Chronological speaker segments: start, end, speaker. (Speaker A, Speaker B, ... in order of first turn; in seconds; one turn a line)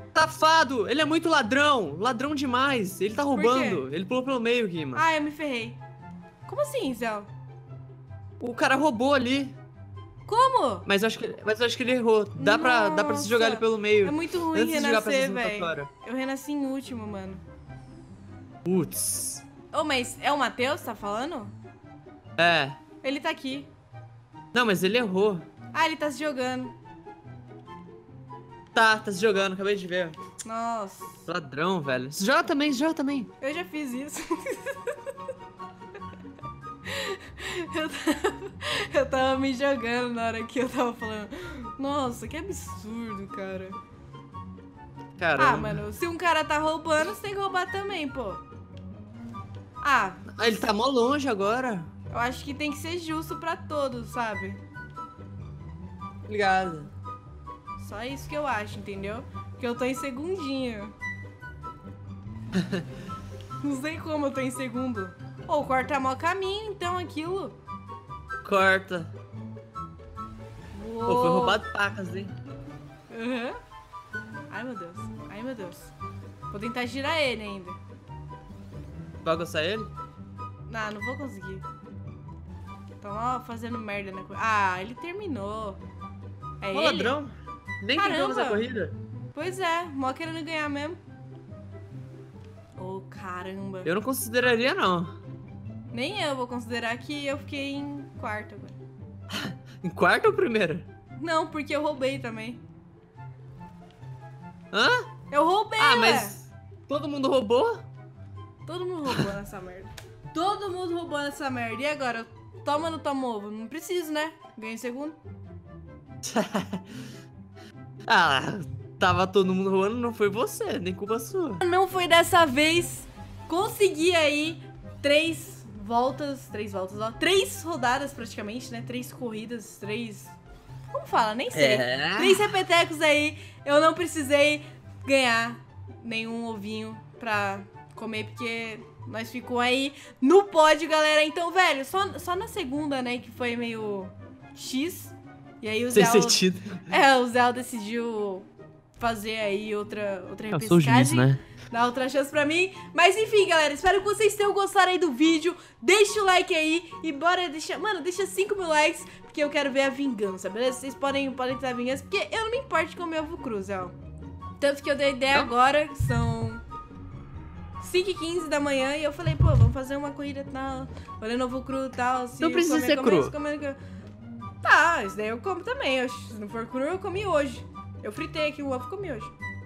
Speaker A: 0.1-5.0
Speaker B: 3.3-3.8
Speaker B: 5.0-5.8
Speaker B: 6.5-7.3
Speaker A: 8.4-9.6
Speaker B: 10.3-10.9
Speaker A: 10.9-15.9
Speaker B: 12.4-17.4
Speaker A: 18.6-19.4
Speaker B: 19.7-21.5
Speaker A: 22.4-22.8
Speaker B: 23.0-23.7
Speaker A: 24.5-25.4
Speaker B: 25.7-26.7
Speaker A: 28.7-30.2
Speaker B: 30.4-31.2
Speaker A: 31.3-33.3
Speaker B: 33.4-35.1
Speaker B: 36.9-43.8
Speaker A: 45.2-45.8
Speaker B: 45.4-48.4
Speaker B: 49.8-50.2
Speaker A: 50.4-51.9
Speaker B: 52.1-54.6
Speaker A: 56.3-56.9
Speaker B: 57.8-60.9
Speaker A: 62.5-62.8
Speaker B: 63.6-67.6
Speaker A: 68.4-69.1
Speaker B: 70.7-71.6
Speaker A: 71.1-72.3
Speaker B: 73.1-73.6
Speaker B: 74.5-75.9
Speaker B: 76.5-77.8
Speaker A: 79.2-79.9
Speaker B: 80.7-81.7
Speaker B: 83.0-85.8
Speaker B: 86.6-87.2
Speaker A: 86.7-89.0
Speaker B: 88.0-88.7
Speaker B: 89.3-91.0
Speaker B: 92.8-93.9
Speaker A: 93.8-95.2
Speaker B: 95.9-98.8
Speaker A: 99.3-100.9
Speaker B: 101.2-102.6
Speaker A: 104.7-105.1
Speaker B: 105.3-106.4
Speaker A: 105.8-107.8
Speaker B: 108.7-115.2
Speaker A: 116.2-116.8
Speaker A: 118.1-121.6
Speaker B: 121.6-130.3
Speaker B: 130.9-163.9
Speaker A: 131.5-132.5
Speaker A: 145.9-146.8
Speaker A: 150.5-151.4
Speaker B: 164.6-166.6
Speaker B: 167.8-173.8
Speaker A: 172.4-173.3
Speaker B: 174.6-179.3